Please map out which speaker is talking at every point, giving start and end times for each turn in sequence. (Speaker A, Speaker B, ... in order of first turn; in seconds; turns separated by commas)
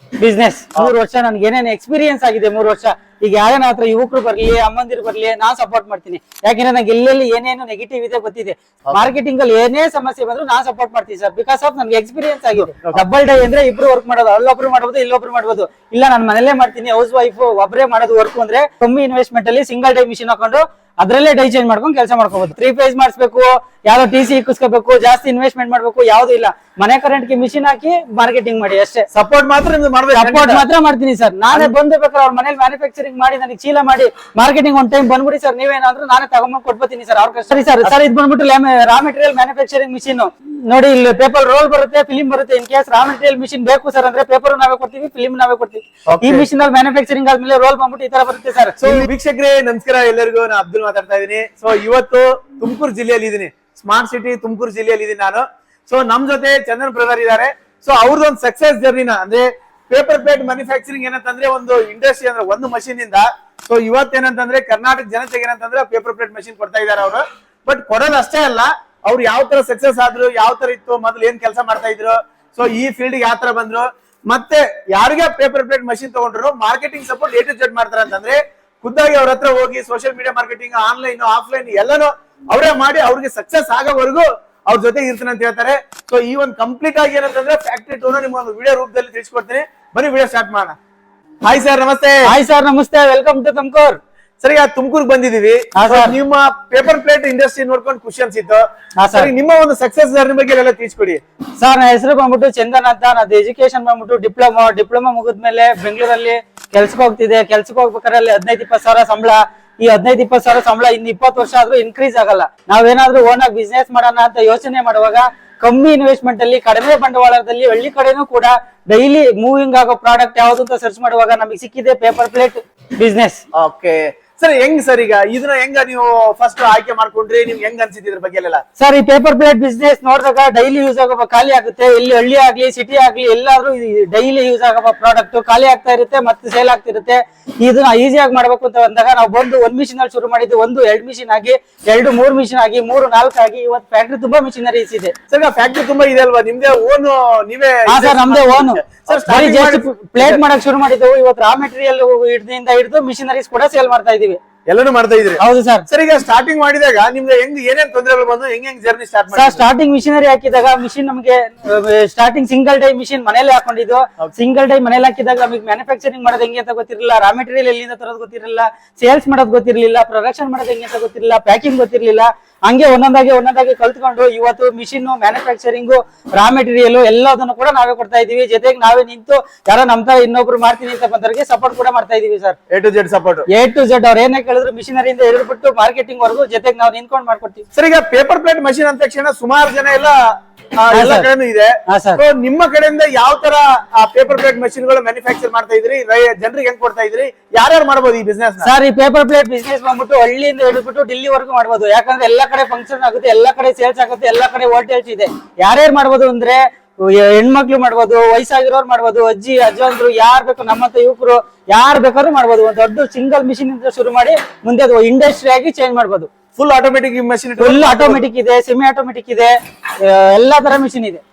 Speaker A: 0.2-29.1, Speaker B: 29.1-30.6, Speaker A: 30.1-49.0, Speaker B: 46.1-46.5, Speaker B: 48.8-90.8, Speaker B: 91.4-92.2, Speaker A: 92.2-94.0, Speaker B: 94.4-101.2, Speaker A: 95.7-96.2, Speaker A: 99.0-99.3, Speaker A: 101.6-123.4, Speaker B: 123.5-128.6, Speaker A: 128.8-145.1, Speaker B: 145.3-150.4, Speaker A: 147.9-154.4, Speaker B: 154.7-159.6, Speaker A: 155.4-155.8, Speaker A: 159.3-182.6, Speaker B: 182.7-183.4, Speaker A: 183.5-187.7, Speaker B: 187.7-190.2, Speaker B: 190.8-198.7, Speaker A: 190.9-191.3, Speaker A: 191.9-192.2, Speaker A: 198.6-216.3, Speaker B: 216.6-218.2, Speaker A: 217.6-221.2